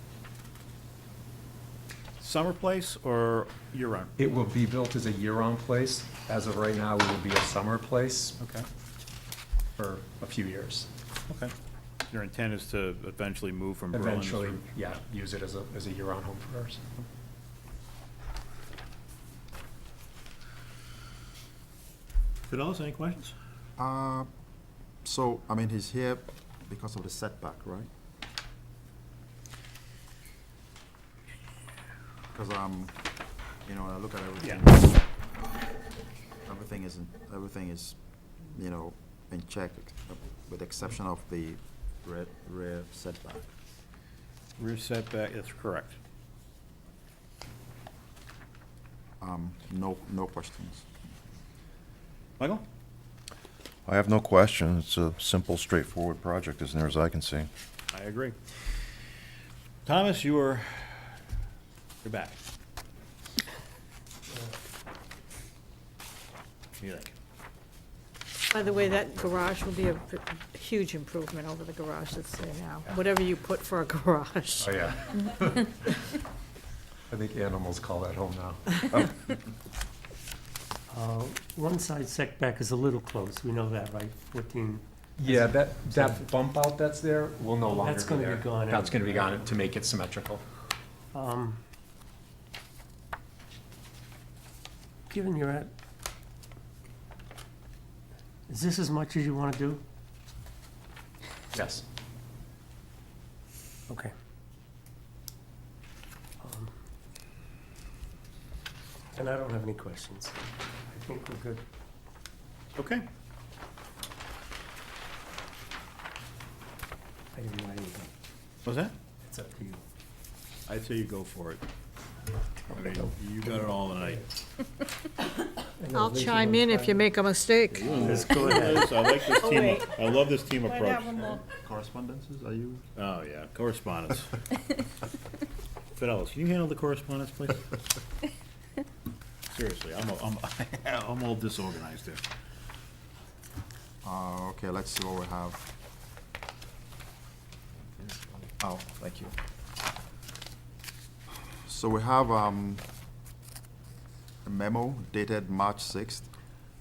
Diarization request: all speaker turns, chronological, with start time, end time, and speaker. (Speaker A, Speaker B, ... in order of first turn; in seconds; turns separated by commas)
Speaker A: 2.2-4.1, Speaker B: 4.2-8.4, Speaker A: 8.4-8.7, Speaker B: 9.8-10.9, Speaker A: 12.1-14.6, Speaker B: 13.9-16.8, Speaker A: 22.5-23.3, Speaker C: 23.8-24.3, Speaker C: 25.0-27.9, Speaker C: 32.3-33.0, Speaker C: 33.6-35.0, Speaker C: 36.5-43.5, Speaker A: 44.6-46.0, Speaker C: 49.2-50.9, Speaker A: 52.4-52.6, Speaker D: 53.9-57.5, Speaker A: 57.9-58.4, Speaker A: 59.9-61.1, Speaker A: 62.0-62.4, Speaker A: 66.8-67.1, Speaker E: 68.5-74.7, Speaker B: 74.6-75.8, Speaker B: 77.1-78.8, Speaker F: 80.9-86.2, Speaker B: 85.2-90.4, Speaker F: 87.6-89.4, Speaker F: 91.1-91.6, Speaker F: 95.1-95.7, Speaker F: 98.5-99.8, Speaker B: 101.5-101.8, Speaker F: 106.4-106.7, Speaker F: 109.1-110.4, Speaker F: 110.9-111.6, Speaker A: 112.8-113.0, Speaker F: 117.3-118.1, Speaker A: 118.6-118.9, Speaker F: 119.3-119.8, Speaker A: 120.7-121.6, Speaker F: 122.7-123.1, Speaker A: 122.7-124.3, Speaker F: 123.6-124.2, Speaker F: 125.7-127.1, Speaker E: 125.9-128.0, Speaker A: 127.7-131.4, Speaker F: 127.9-129.0, Speaker E: 129.2-131.4, Speaker C: 131.5-132.8, Speaker A: 132.9-134.3, Speaker A: 135.9-137.7, Speaker A: 139.5-142.2, Speaker C: 144.0-145.6, Speaker C: 148.6-149.3, Speaker C: 151.7-152.8, Speaker C: 154.4-156.3